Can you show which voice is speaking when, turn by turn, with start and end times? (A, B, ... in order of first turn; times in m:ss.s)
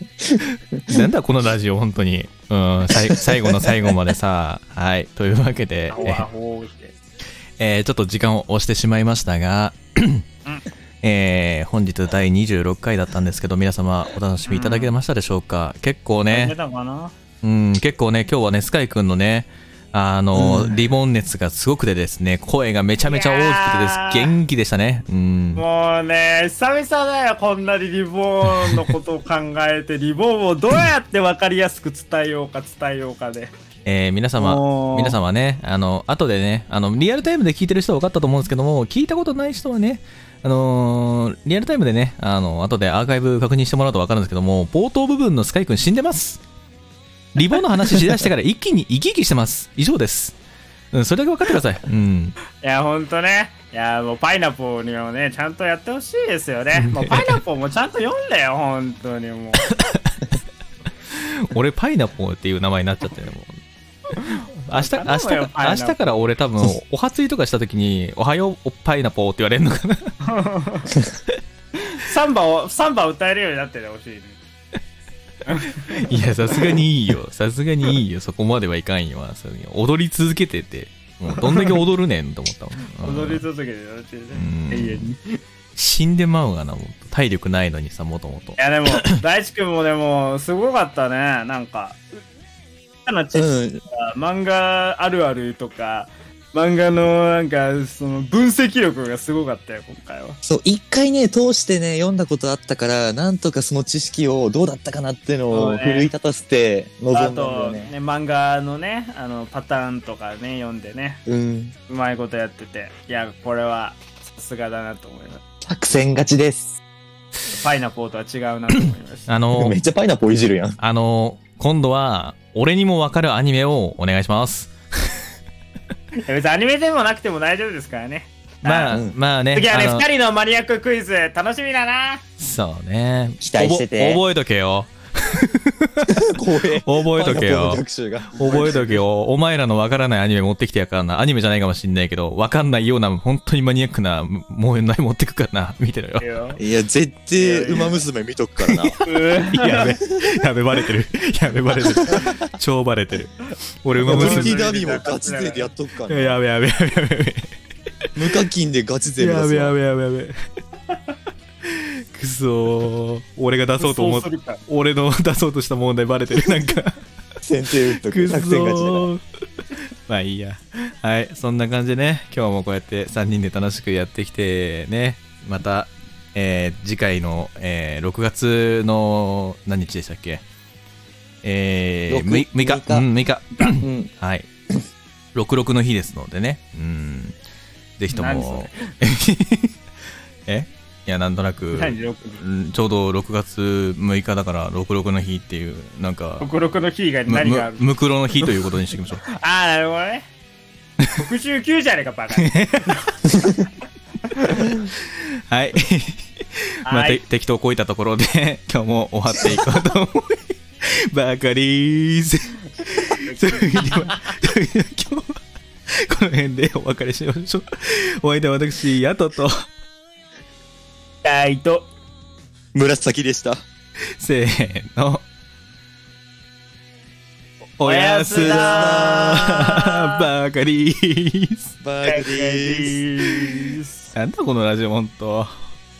0:00.3-0:01.0 A
0:00.4-0:06.2 B
0:02.9-0:03.9 A
0:05.9-0:06.9 C
0:07.6-0:10.2 B
0:11.0-0:16.5 B
0:14.5-0:14.9 C
0:16.3-0:17.1 C
0:17.4-0:25.6 B
0:20.3-0:20.8 A
0:23.0-0:24.3 C
0:25.6-0:33.5 C
0:33.8-0:46.4 B
0:34.4-0:35.2 C
0:47.3-0:50.4 B
0:50.9-0:52.4 B
0:52.6-0:59.7 C
0:56.7-0:57.4 B
0:59.6-1:00.2 B
1:01.1-1:03.6 B
1:04.1-1:10.2 B
1:04.2-1:06.0 C
1:10.2-1:11.0 C
1:11.8-1:14.4 C
1:15.4-1:16.0 C
1:15.8-1:23.4 B
1:21.4-1:21.8 C
1:23.0-1:25.4 C
1:24.3-1:25.1 B
1:25.8-1:29.0 B
1:28.6-1:32.0 C
1:33.0-1:40.4 C
1:33.3-1:33.8 A
1:40.4-1:47.9 A
1:45.5-1:46.1 C
1:47.1-1:51.2 C
1:51.2-1:51.7 A
1:51.9-1:55.4 C
1:55.6-1:56.8 A
1:57.5-1:59.3 C
1:59.3-1:59.8 B
1:59.5-2:00.8 A
2:00.8-2:05.1 B
2:06.2-2:08.9 C
2:08.6-2:10.0 B
2:08.9-2:09.1 A
2:09.5-2:12.2 C
2:12.4-2:17.8 B
2:13.4-2:14.2 A
2:16.0-2:18.4 A
2:18.3-2:19.0 C
2:18.4-2:26.2 B
2:26.2-2:26.6 C
2:26.6-2:29.0 A
2:27.4-2:28.0 C
2:28.6-2:34.6 B
2:29.0-2:29.9 C
2:32.0-2:32.3 A
2:34.0-2:36.4 A
2:34.0-2:35.7 C
2:36.1-2:37.5 B
2:38.1-2:39.7 A
2:39.2-2:40.4 B
2:41.6-2:47.0 B
2:43.8-2:44.6 C
2:47.4-2:49.1 A
2:48.0-2:49.2 B
2:50.1-3:00.4 B
3:01.4-3:04.5 B
3:02.1-3:03.0 A
3:03.6-3:04.1 A
3:05.3-3:07.4 B
3:08.0-3:09.7 B
3:08.1-3:08.9 C
3:10.5-3:16.5 B
3:11.7-3:12.4 C
3:16.4-3:17.8 C
3:17.3-3:19.2 B
3:19.2-3:20.2 C
3:21.1-3:23.2 C
3:22.4-3:23.0 B
3:24.2-3:24.7 C
3:24.8-3:39.7 B
3:26.8-3:27.2 C
3:33.2-3:34.1 C
3:41.2-3:41.9 C
3:42.7-3:43.6 A
3:44.2-3:45.2 B
3:47.8-3:51.7 B
3:47.8-3:50.2 C
3:48.4-3:49.5 A
3:51.8-3:53.0 A
3:52.0-3:54.1 C
3:54.1-3:55.6 B